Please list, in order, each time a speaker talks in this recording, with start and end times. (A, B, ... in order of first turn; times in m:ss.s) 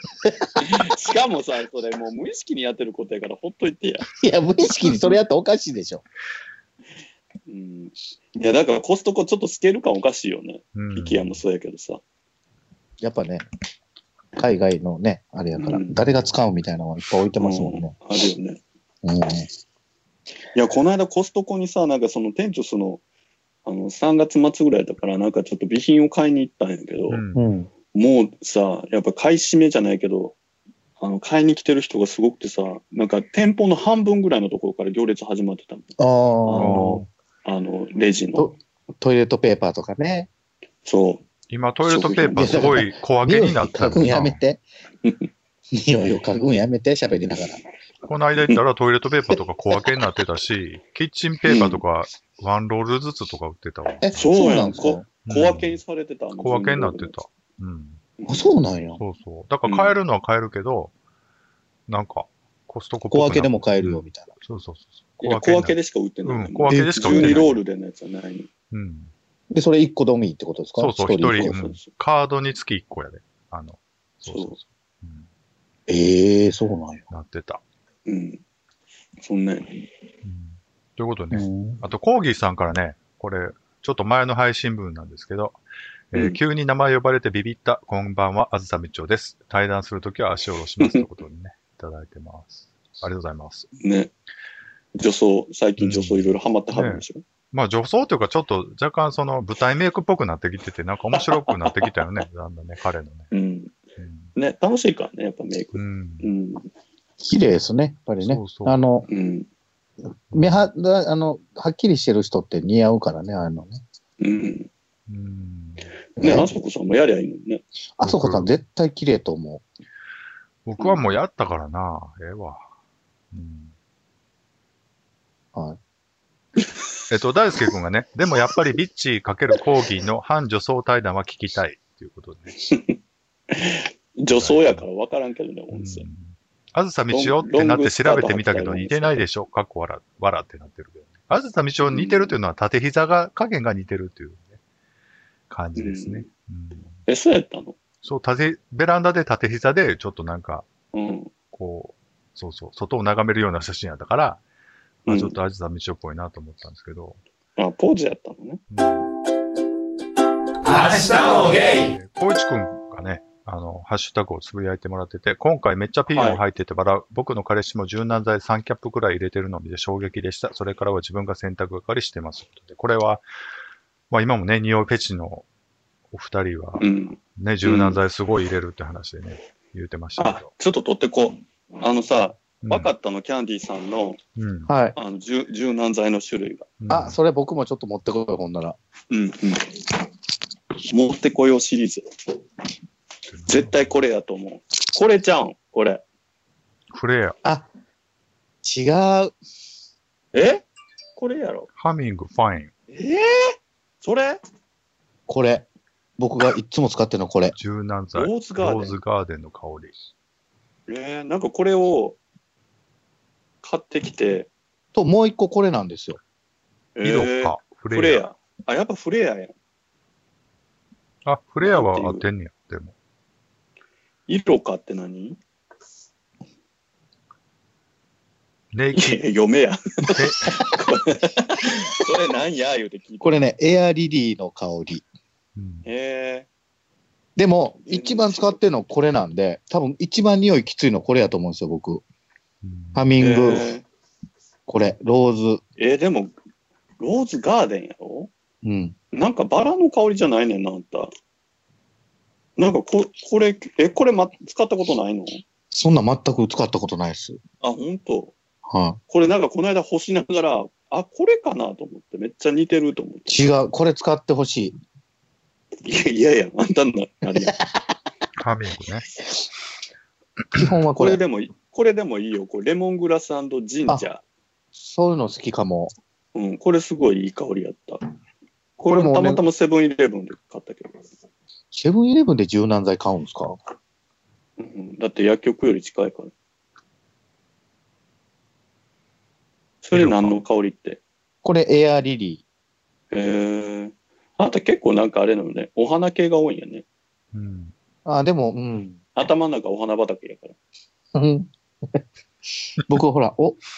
0:00.2-0:00.6 A
0:00.6-0:04.1 B
0:04.2-0:06.0 A
0:04.6-0:05.2 B
0:07.5-0:12.0 B
0:10.7-0:11.4 C
0:13.0-0:13.4 A
0:14.4-0:18.0 A
0:15.6-0:16.0 B
0:17.4-0:18.6 B
0:19.0-0:19.5 A
0:20.5-0:23.0 B
0:23.6-0:27.2 B
0:27.1-0:27.5 C
0:27.3-0:27.7 A
0:27.9-0:30.4 B
0:31.0-0:38.5 B
0:36.0-0:37.0 A
0:36.6-0:37.0 C
0:38.4-0:40.3 A
0:40.8-0:41.2 B
0:41.5-0:44.4 C
0:41.8-0:42.7 B
0:42.3-0:44.6 A
0:45.8-0:47.6 A
0:48.0-0:54.3 C
0:51.4-0:51.8 B
0:54.0-0:55.1 A
0:54.2-0:57.2 B
0:55.2-0:55.8 C
0:56.4-0:58.0 C
0:58.2-0:58.5 B
0:58.3-0:59.0 A
0:59.0-1:00.9 C
0:59.6-1:00.0 B
1:01.9-1:07.6 C
1:03.1-1:04.3 A
1:05.2-1:08.5 B
1:06.7-1:07.5 A
1:08.7-1:09.1 C
1:09.5-1:11.5 A
1:10.8-1:15.3 C
1:11.3-1:11.9 B
1:14.2-1:14.6 B
1:15.9-1:17.0 A
1:17.1-1:17.6 C
1:18.0-1:18.4 B
1:19.2-1:19.8 B
1:20.2-1:25.6 C
1:21.3-1:21.8 A
1:26.1-1:33.7 C
1:26.1-1:26.4 B
1:30.8-1:31.1 B
1:33.8-1:34.1 B
1:34.9-1:37.2 B
1:35.8-1:43.3 C
1:41.2-1:42.0 B
1:43.3-1:43.8 B
1:44.0-1:44.3 C
1:44.4-1:46.7 B
1:45.7-1:46.3 C
1:47.2-1:49.1 A
1:48.2-1:48.8 C
1:49.1-1:49.5 B
1:50.1-1:53.8 A
1:50.3-1:50.7 C
1:54.2-1:54.7 B
1:55.1-1:55.9 C
1:56.2-1:57.6 B
1:56.2-1:56.5 A
1:58.0-1:59.6 A
1:58.0-1:58.5 C
2:00.6-2:02.6 C
2:00.8-2:01.1 B
2:03.3-2:03.7 C
2:07.1-2:12.5 C
2:12.6-2:13.0 B
2:13.5-2:16.1 B
2:14.3-2:14.8 C
2:15.7-2:24.6 C
2:17.1-2:19.2 B
2:21.8-2:22.4 B
2:25.5-2:26.9 C
2:25.8-2:26.3 B
2:27.1-2:27.8 B
2:28.0-2:30.7 C
2:30.9-2:31.3 B
2:31.5-2:34.4 C
2:35.0-2:35.4 B
2:35.1-2:37.2 C
2:37.6-2:38.6 B
2:38.7-2:39.1 C
2:41.1-2:53.2 C
2:46.1-2:46.4 B
2:54.1-2:55.5 C
2:56.1-3:00.5 C
2:56.8-2:58.0 B
3:00.2-3:04.2 B
3:02.6-3:02.9 C
3:04.4-3:04.7 C
3:04.7-3:05.0 A
3:05.0-3:06.7 B
3:06.8-3:07.2 C
3:06.9-3:08.8 A
3:09.1-3:09.9 B
3:10.8-3:12.0 B
3:13.3-3:14.0 C
3:13.5-3:16.0 B
3:16.9-3:17.4 C
3:18.6-3:19.3 A
3:20.3-3:20.6 B
3:21.2-3:21.7 B
3:21.8-3:22.7 C
3:22.9-3:24.4 B
3:25.3-3:25.6 A
3:26.2-3:27.5 A
3:27.5-3:29.9 C
3:28.1-3:29.0 B
3:30.9-3:32.2 B
3:33.6-3:34.5 B
3:34.9-3:36.2 A
3:37.0-3:39.5 B
3:37.0-3:38.2 C
3:41.2-3:42.9 C
3:41.6-3:42.3 B
3:44.3-3:45.4 B
3:48.7-3:49.2 C
3:48.9-3:53.4 B
3:50.1-3:50.4 C
3:53.2-3:55.0 A
3:55.6-3:55.9 C
3:55.8-3:56.5 B
3:57.4-4:02.0 A
3:57.8-3:58.6 B
4:02.6-4:03.1 C
4:02.9-4:03.7 A
4:03.2-4:03.8 B
4:04.7-4:05.6 A
4:05.8-4:06.3 B
4:07.0-4:08.3 B
4:08.6-4:08.9 A
4:09.1-4:11.1 B
4:12.6-4:15.4 B
4:15.7-4:17.4 A
4:17.6-4:18.3 B
4:18.7-4:19.0 A
4:19.1-4:23.5 B
4:23.3-4:24.8 A
4:25.8-4:27.6 B
4:28.4-4:29.1 C
4:30.5-4:31.2 A
4:31.0-4:34.2 B
4:34.8-4:35.9 A
4:36.3-4:38.0 B
4:38.8-4:41.0 B
4:38.8-4:39.4 A
4:41.7-4:43.6 A
4:44.6-4:46.3 B
4:49.8-4:51.0 B
4:49.9-4:50.4 C
4:51.4-4:52.4 A
4:53.1-4:56.8 B
4:57.3-4:57.7 C
4:58.0-4:59.0 A
4:59.1-5:00.5 B
5:01.1-5:02.0 A
5:02.8-5:03.6 A